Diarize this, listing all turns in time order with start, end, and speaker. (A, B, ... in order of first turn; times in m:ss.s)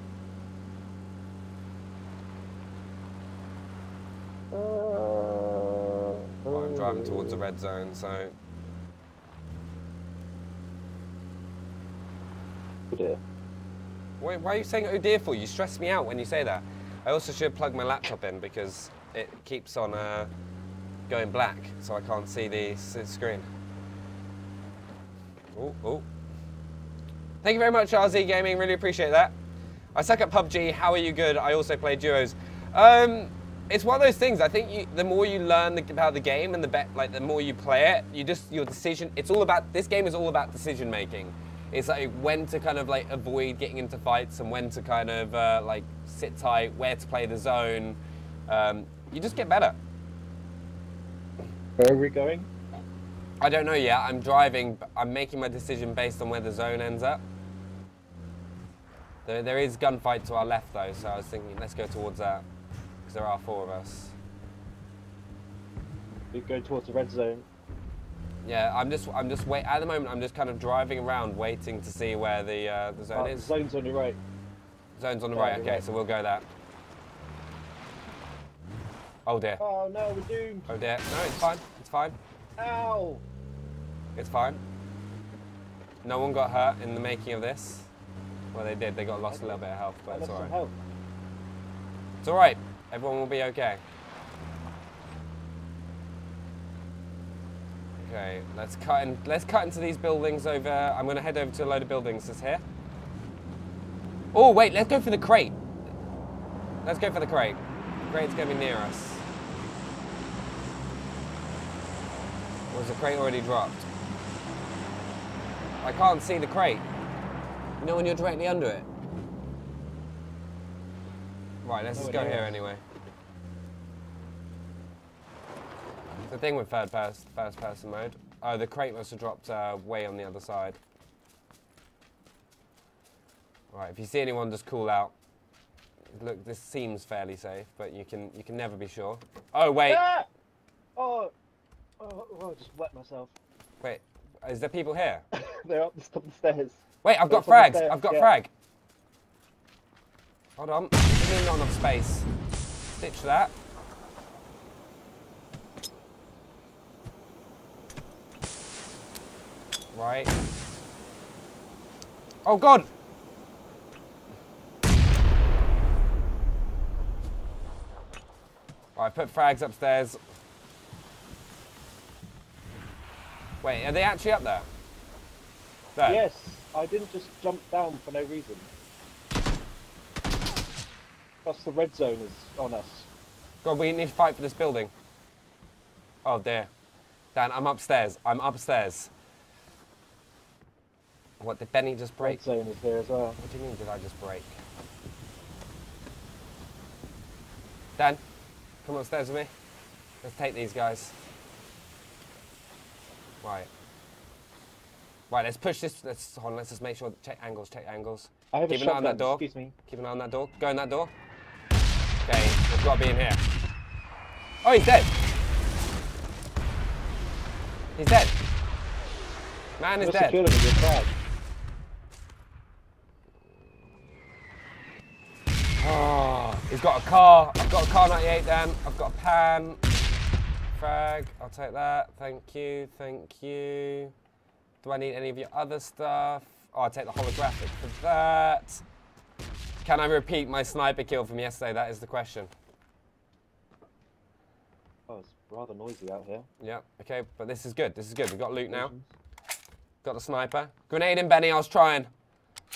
0:04.5-0:07.4 A
0:06.5-0:08.3 B
0:12.9-0:13.2 A
0:14.2-0:20.3 B
0:21.1-0:23.5 B
0:25.5-0:26.1 B
0:27.4-0:29.3 B
0:29.9-0:49.8 B
0:51.8-0:52.5 A
0:53.4-0:57.2 B
0:59.2-1:02.4 B
1:03.0-1:04.2 B
1:06.3-1:07.5 A
1:08.4-1:13.5 B
1:13.1-1:14.2 A
1:15.0-1:16.4 B
1:15.3-1:15.8 A
1:19.2-1:19.6 B
1:19.6-1:20.7 A
1:20.7-1:22.2 B
1:22.6-1:23.2 A
1:24.2-1:24.6 B
1:26.0-1:27.9 B
1:28.5-1:30.5 B
1:29.3-1:30.7 A
1:32.2-1:33.8 B
1:38.0-1:42.6 B
1:44.3-1:45.6 B
1:46.8-1:49.2 B
1:52.7-1:53.8 B
1:55.8-1:56.8 B
1:57.8-1:58.9 B
2:01.6-2:02.8 B
2:01.9-2:02.6 A
2:06.3-2:10.8 B
2:13.7-2:15.1 B
2:16.1-2:20.0 B
2:19.9-2:20.2 A
2:21.0-2:21.3 A
2:22.0-2:23.3 A
2:23.8-2:25.2 B
2:25.3-2:28.3 A
2:27.0-2:28.5 B
2:30.6-2:32.3 B
2:33.0-2:33.5 B
2:39.9-2:40.3 B
2:42.4-2:42.9 B
2:49.0-2:50.2 B
2:53.6-2:54.7 B
2:56.0-2:56.2 B
2:56.0-2:58.7 A
3:01.4-3:03.1 A
3:03.6-3:04.9 B
3:06.2-3:06.7 B
3:07.3-3:09.1 B
3:11.4-3:12.4 B
3:12.2-3:13.4 A
3:13.4-3:14.6 B
3:18.8-3:19.5 B
3:20.2-3:21.2 B
3:23.4-3:23.7 B
3:25.3-3:31.1 B
3:28.5-3:29.7 A
3:32.2-3:33.4 B
3:34.6-3:35.2 B
3:38.0-3:38.3 B
3:39.8-3:40.4 B
3:40.0-3:41.1 A
3:45.8-3:49.8 B
3:50.7-3:54.1 B
3:54.8-3:58.8 B
3:59.8-4:02.5 B
4:05.1-4:06.5 A
4:06.6-4:08.9 B
4:08.7-4:09.1 A
4:10.0-4:12.1 B